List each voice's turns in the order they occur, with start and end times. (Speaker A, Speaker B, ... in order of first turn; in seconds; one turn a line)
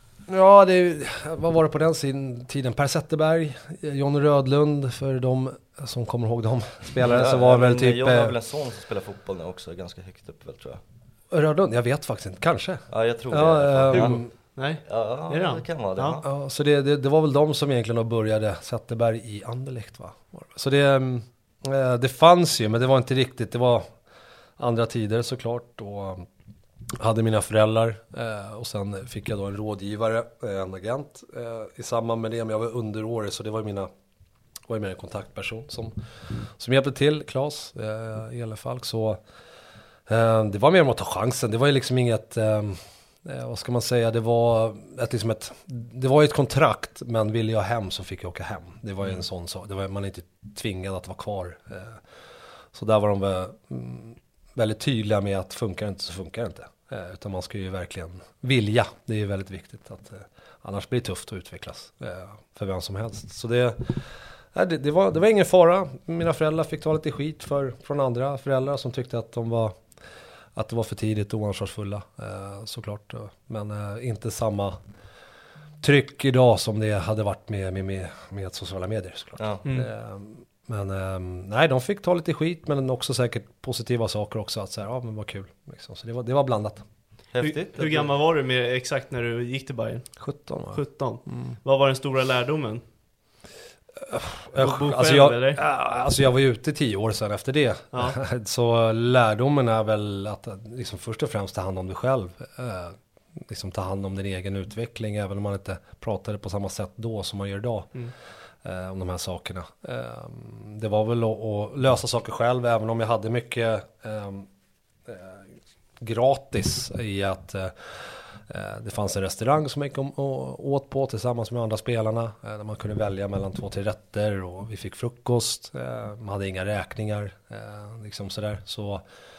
Speaker A: 0.3-8.3
Speaker B: 7.0-10.8
Speaker A: 11.3-14.3
Speaker B: 12.9-14.2
Speaker C: 13.9-16.2
Speaker B: 14.8-16.2
Speaker A: 16.2-23.9
Speaker A: 24.6-26.3
Speaker A: 27.0-33.9
Speaker A: 34.7-39.2
Speaker A: 40.1-52.0
Speaker A: 52.7-69.8
Speaker A: 70.5-74.8
Speaker A: 75.8-86.8
Speaker B: 79.4-79.6
Speaker B: 87.3-88.1
Speaker C: 87.4-90.1
Speaker A: 90.2-91.5
Speaker C: 90.7-92.8
Speaker A: 94.0-107.9
Speaker C: 94.6-95.6
Speaker C: 97.9-98.2
Speaker A: 108.6-114.5
Speaker A: 115.0-115.5
Speaker A: 116.0-129.0